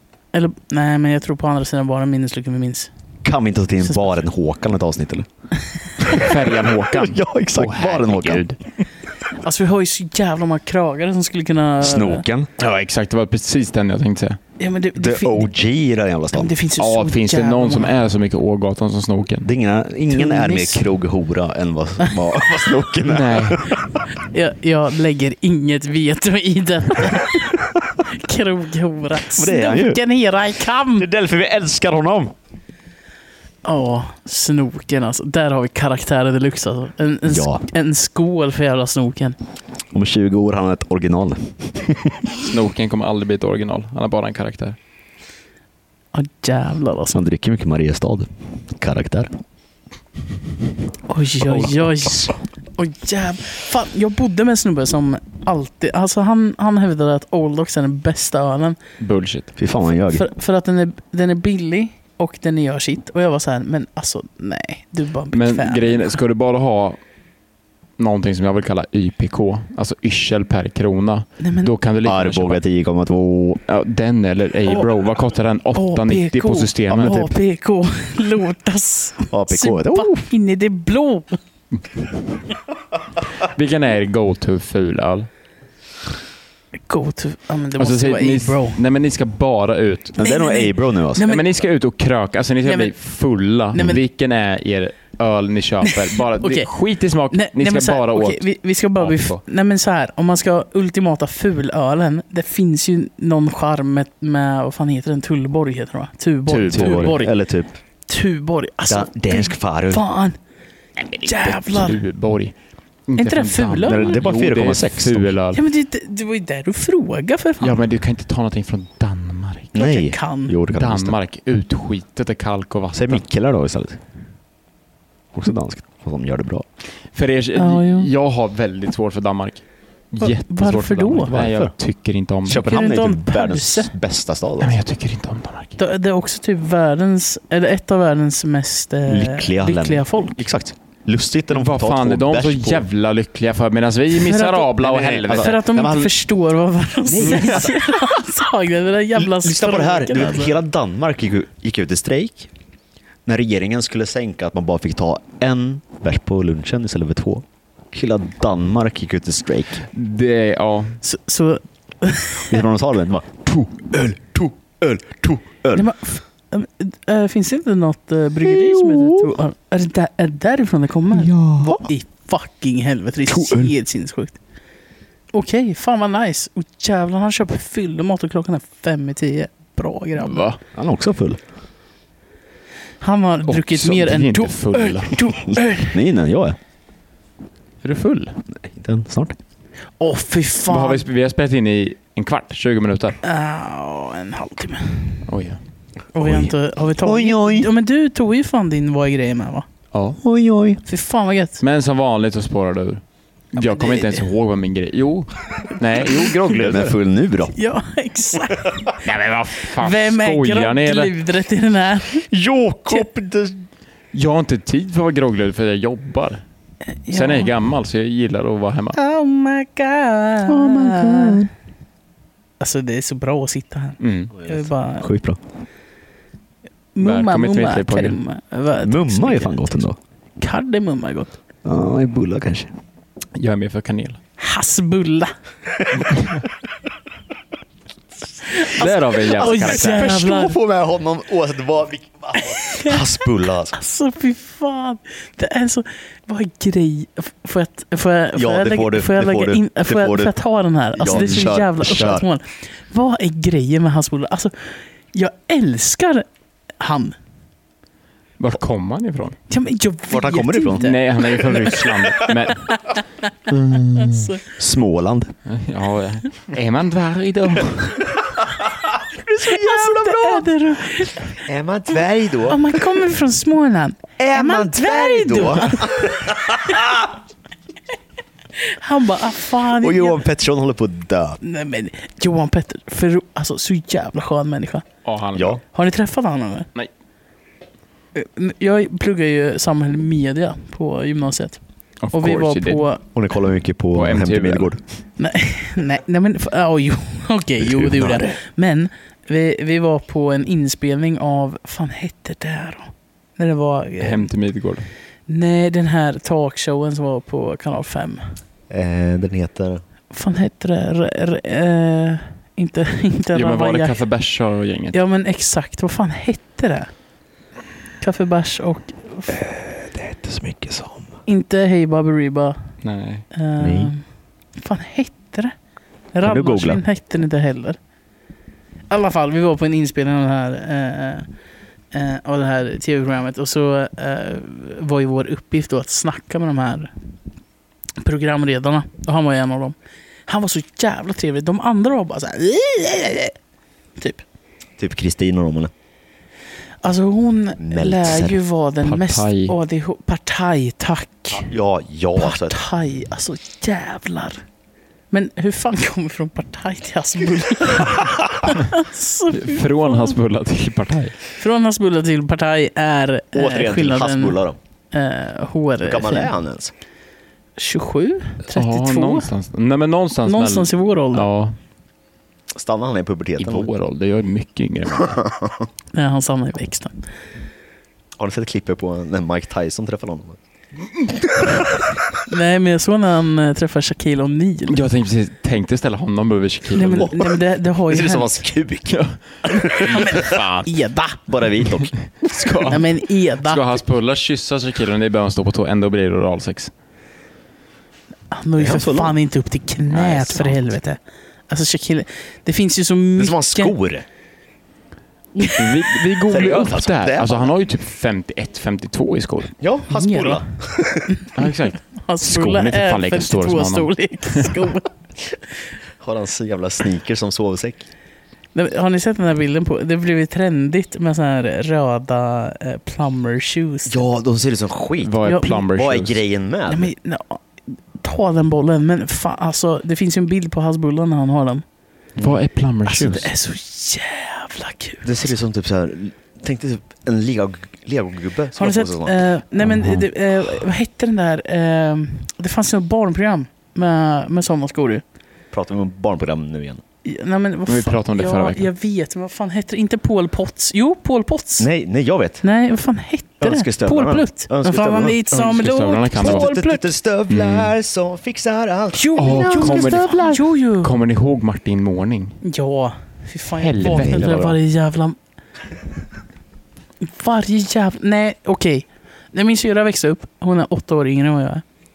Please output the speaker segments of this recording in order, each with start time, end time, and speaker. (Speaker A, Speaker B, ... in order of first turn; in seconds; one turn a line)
Speaker A: 0.3-2.9
Speaker B: 3.2-5.2
Speaker A: 3.9-4.1
Speaker B: 6.0-8.4
Speaker C: 6.1-8.6
Speaker A: 9.4-12.2
Speaker B: 11.8-12.5
Speaker C: 12.6-14.4
Speaker A: 14.6-15.5
Speaker B: 14.9-16.5
Speaker A: 16.3-17.9
Speaker C: 16.8-19.5
Speaker B: 19.4-24.0
Speaker A: 20.1-20.8
Speaker C: 23.0-23.7
Speaker A: 24.1-31.1
Speaker B: 29.3-30.0
Speaker B: 31.0-32.3
Speaker A: 33.6-39.4
Speaker B: 37.2-37.6
Speaker B: 39.9-42.2
Speaker C: 42.3-44.8
Speaker A: 46.1-47.2
Speaker B: 47.1-49.3
Speaker A: 51.1-58.8
Speaker C: 51.5-52.0
Speaker C: 59.0-59.5
Speaker B: 59.5-60.2
Speaker A: 60.1-66.2
Speaker C: 65.3-67.0
Speaker C: 68.0-72.6
Speaker A: 71.4-71.7
Speaker B: 72.0-73.6
Speaker C: 73.7-77.3
Speaker A: 75.7-81.4
Speaker B: 76.9-77.3
Speaker B: 79.3-80.3
Speaker C: 83.3-85.3
Speaker A: 86.9-88.8
Speaker C: 87.8-90.2
Speaker B: 90.2-91.3
Speaker A: 90.2-91.5
Speaker C: 91.2-99.4
Speaker A: 92.6-92.9
Speaker A: 93.7-94.0
Speaker A: 95.8-96.7
Speaker A: 97.3-107.3
Speaker C: 106.5-107.2
Speaker B: 106.7-107.7
Speaker A: 108.1-110.4
Speaker B: 108.9-110.0
Speaker C: 111.0-112.5
Speaker A: 111.2-112.0
Speaker C: 113.1-115.6
Speaker A: 113.2-114.2
Speaker B: 113.8-115.3
Speaker A: 115.5-117.8
Speaker C: 117.6-119.7
Speaker B: 119.7-121.2
Speaker A: 119.7-120.5
Speaker C: 120.7-123.2
Speaker B: 122.9-124.0
Speaker B: 125.3-126.6
Speaker C: 127.1-132.7
Speaker A: 127.5-128.1
Speaker A: 130.2-131.3
Speaker B: 131.3-131.7
Speaker B: 132.4-134.8
Speaker A: 132.6-133.9
Speaker C: 134.6-135.8
Speaker A: 135.8-140.4
Speaker B: 139.1-142.9
Speaker C: 141.5-145.7
Speaker A: 144.1-150.6
Speaker B: 144.8-146.1
Speaker B: 147.1-147.9
Speaker C: 147.2-147.7
Speaker B: 149.1-152.5
Speaker B: 153.2-159.8
Speaker C: 159.9-161.0
Speaker A: 161.0-162.6
Speaker B: 162.5-165.9
Speaker A: 165.7-174.4
Speaker B: 168.4-169.3
Speaker B: 171.1-171.9
Speaker B: 173.3-173.7
Speaker A: 175.3-180.5
Speaker C: 180.2-180.6
Speaker B: 180.7-181.4
Speaker A: 183.0-186.0
Speaker C: 183.5-185.2
Speaker B: 185.5-186.6
Speaker C: 187.8-188.4
Speaker B: 188.5-189.3
Speaker A: 190.0-191.1
Speaker C: 190.7-193.2
Speaker A: 193.2-195.2
Speaker C: 195.2-195.6
Speaker A: 196.1-199.7
Speaker B: 196.2-197.7
Speaker C: 199.9-200.2
Speaker B: 200.2-200.8
Speaker A: 200.8-201.6
Speaker C: 201.6-203.0
Speaker C: 203.5-207.0
Speaker A: 203.6-204.2
Speaker B: 206.6-207.5
Speaker A: 207.5-209.0
Speaker C: 208.9-211.1
Speaker A: 209.8-212.2
Speaker B: 212.3-213.6
Speaker C: 214.1-216.4
Speaker A: 216.9-217.5
Speaker C: 217.1-219.0
Speaker A: 218.9-221.4
Speaker B: 220.5-221.5
Speaker A: 222.6-225.1
Speaker C: 224.0-224.3
Speaker B: 224.4-225.4
Speaker A: 226.9-229.8
Speaker C: 227.0-228.2
Speaker B: 228.8-230.0
Speaker A: 230.4-231.3
Speaker B: 231.6-232.7
Speaker C: 233.3-234.2
Speaker A: 234.4-235.3
Speaker B: 235.8-236.1
Speaker C: 236.1-236.4
Speaker A: 238.4-240.6
Speaker C: 238.6-240.1
Speaker B: 238.8-243.7
Speaker A: 242.4-243.0
Speaker A: 243.7-256.3
Speaker B: 248.3-250.3
Speaker B: 250.9-252.2
Speaker C: 251.1-252.0
Speaker A: 256.8-257.1
Speaker C: 258.4-259.4
Speaker A: 259.5-261.8
Speaker B: 260.1-260.9
Speaker C: 260.8-262.9
Speaker A: 262.5-263.0
Speaker C: 263.5-264.3
Speaker A: 263.9-264.4
Speaker B: 264.6-265.3
Speaker C: 265.5-268.2
Speaker B: 269.1-270.5
Speaker A: 269.4-271.3
Speaker B: 271.4-272.7
Speaker A: 272.5-276.8
Speaker B: 274.2-277.1
Speaker A: 278.6-280.2
Speaker B: 279.8-281.4
Speaker A: 281.4-284.9
Speaker C: 285.0-285.6
Speaker B: 285.3-285.6
Speaker A: 285.7-286.7
Speaker A: 288.1-291.6
Speaker C: 292.0-292.8
Speaker A: 292.1-293.0
Speaker B: 293.1-294.8
Speaker C: 293.9-294.7
Speaker A: 295.2-304.3
Speaker B: 297.6-298.4
Speaker C: 304.0-304.9
Speaker A: 305.3-308.3
Speaker B: 308.7-309.8
Speaker A: 310.1-314.0
Speaker C: 313.3-315.0
Speaker A: 314.9-316.9
Speaker A: 318.0-319.4
Speaker B: 319.3-321.1
Speaker A: 321.2-322.6
Speaker C: 322.8-323.2
Speaker A: 323.3-324.0
Speaker B: 323.6-323.9
Speaker A: 324.6-325.5
Speaker A: 326.1-327.8
Speaker B: 326.2-326.8
Speaker A: 328.9-331.3
Speaker A: 331.9-336.9
Speaker A: 338.0-339.8
Speaker A: 340.3-343.3
Speaker A: 344.0-344.2
Speaker B: 344.8-345.7
Speaker A: 346.8-351.5
Speaker B: 347.6-348.4
Speaker C: 348.8-349.6
Speaker B: 351.4-352.6
Speaker A: 352.1-354.4
Speaker A: 355.1-360.2
Speaker C: 359.3-361.2
Speaker A: 361.4-364.4
Speaker B: 363.3-364.6
Speaker A: 364.9-366.3
Speaker B: 365.8-366.7
Speaker A: 367.6-369.3
Speaker C: 368.5-371.6
Speaker A: 370.2-371.3
Speaker B: 372.5-373.7
Speaker C: 373.4-375.2
Speaker B: 375.0-375.7
Speaker A: 375.9-377.0
Speaker B: 378.2-380.4
Speaker A: 382.3-384.8
Speaker C: 384.7-387.1
Speaker A: 386.7-388.4
Speaker B: 387.0-390.4
Speaker C: 388.9-390.7
Speaker A: 389.6-391.2
Speaker B: 391.3-392.4
Speaker C: 391.6-396.7
Speaker A: 392.7-393.6
Speaker A: 398.3-403.7
Speaker B: 398.6-399.1
Speaker C: 399.9-400.7
Speaker B: 403.2-404.0
Speaker A: 405.4-405.6
Speaker C: 405.5-409.6
Speaker B: 406.3-407.5
Speaker B: 409.6-411.1
Speaker A: 409.9-410.5
Speaker A: 411.1-414.9
Speaker C: 411.3-414.6
Speaker B: 416.0-417.9
Speaker A: 418.5-424.0
Speaker B: 423.9-426.9
Speaker C: 425.0-426.2
Speaker A: 425.2-425.6
Speaker A: 426.7-431.6
Speaker C: 432.2-433.3
Speaker A: 432.8-435.3
Speaker B: 435.0-439.2
Speaker A: 438.5-445.0
Speaker C: 439.7-440.0
Speaker B: 445.5-446.8
Speaker A: 447.0-451.7
Speaker C: 447.7-448.7
Speaker B: 451.6-452.4
Speaker A: 452.4-456.8
Speaker B: 453.4-455.2
Speaker C: 455.3-456.5
Speaker B: 456.1-460.4
Speaker C: 457.3-457.7
Speaker A: 458.9-460.9
Speaker C: 459.1-462.4
Speaker A: 462.4-465.2
Speaker C: 463.6-464.6
Speaker B: 463.9-464.5
Speaker A: 467.0-471.6